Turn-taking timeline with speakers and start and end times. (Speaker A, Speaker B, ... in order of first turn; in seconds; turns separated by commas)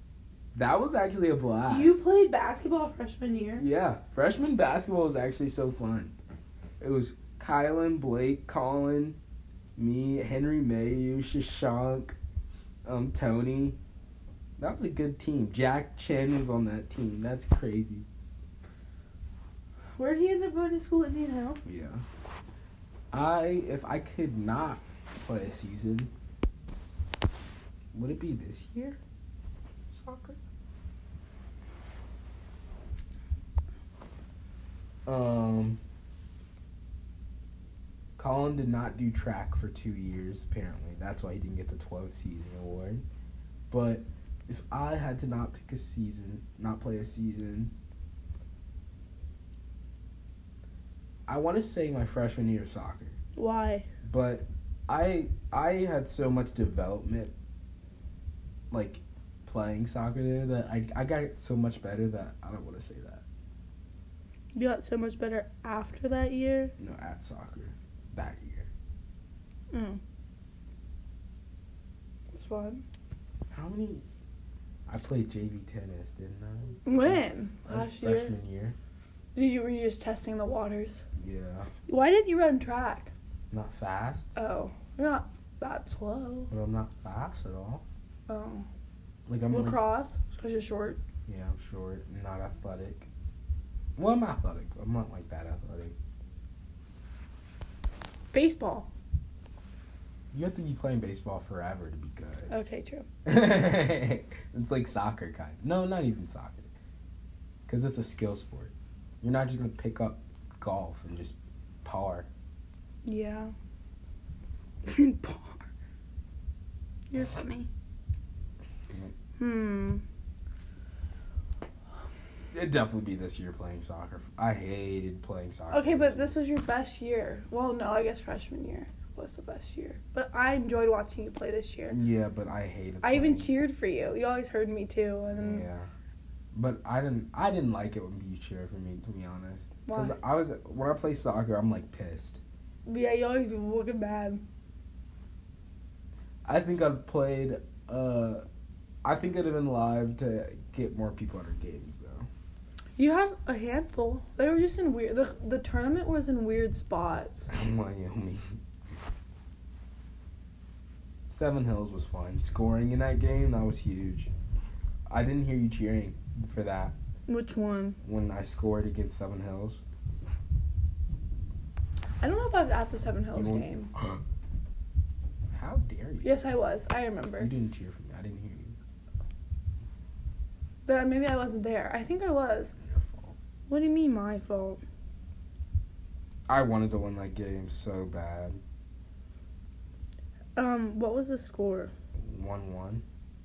Speaker A: 0.5-2.0, Speaker B: 1.7-3.6, Speaker A: 3.6-6.1, Speaker A: 6.8-9.2, Speaker A: 9.8-12.1, Speaker A: 12.8-13.8, Speaker A: 14.6-18.1, Speaker B: 20.0-21.6, Speaker A: 21.6-22.0, Speaker A: 23.1-26.1, Speaker A: 27.9-29.0, Speaker A: 29.9-30.4, Speaker A: 35.0-35.8, Speaker A: 38.2-43.0, Speaker A: 43.7-47.7, Speaker A: 51.3-53.2, Speaker B: 53.4-53.9, Speaker A: 54.0-57.3, Speaker A: 58.7-63.2, Speaker B: 64.5-66.7, Speaker A: 66.8-68.7, Speaker B: 69.7-70.0, Speaker B: 72.3-72.8, Speaker A: 73.5-74.0, Speaker A: 74.9-78.8, Speaker B: 76.8-78.3, Speaker B: 79.3-81.0, Speaker A: 81.2-81.7, Speaker B: 81.9-83.1, Speaker A: 83.5-84.3, Speaker B: 84.3-86.5, Speaker A: 86.5-87.8, Speaker B: 88.3-88.7, Speaker A: 89.3-89.8, Speaker B: 89.5-91.0, Speaker A: 91.2-93.1, Speaker A: 94.0-95.9, Speaker B: 98.3-98.9, Speaker A: 100.3-102.5, Speaker B: 102.5-103.0, Speaker A: 103.2-106.7, Speaker A: 107.7-112.3, Speaker B: 113.0-113.5, Speaker B: 114.8-115.6, Speaker B: 117.1-117.7, Speaker B: 119.4-120.0, Speaker A: 122.5-126.3, Speaker B: 125.7-132.0, Speaker A: 131.9-133.5, Speaker B: 133.0-135.6, Speaker A: 135.3-135.9, Speaker A: 136.5-142.4, Speaker B: 139.8-140.2, Speaker B: 142.8-144.4, Speaker A: 146.4-148.4, Speaker A: 149.0-152.3, Speaker B: 153.0-157.5, Speaker A: 157.5-158.5, Speaker A: 161.3-164.3, Speaker A: 165.1-166.9, Speaker B: 167.3-168.0, Speaker A: 168.0-169.8, Speaker B: 172.2-173.9, Speaker A: 173.3-174.2, Speaker A: 175.5-176.4, Speaker B: 176.2-177.5, Speaker A: 177.4-178.8, Speaker B: 180.8-182.7, Speaker A: 182.8-183.3, Speaker B: 183.7-184.8, Speaker A: 186.5-188.6, Speaker B: 190.5-191.9, Speaker A: 192.2-193.0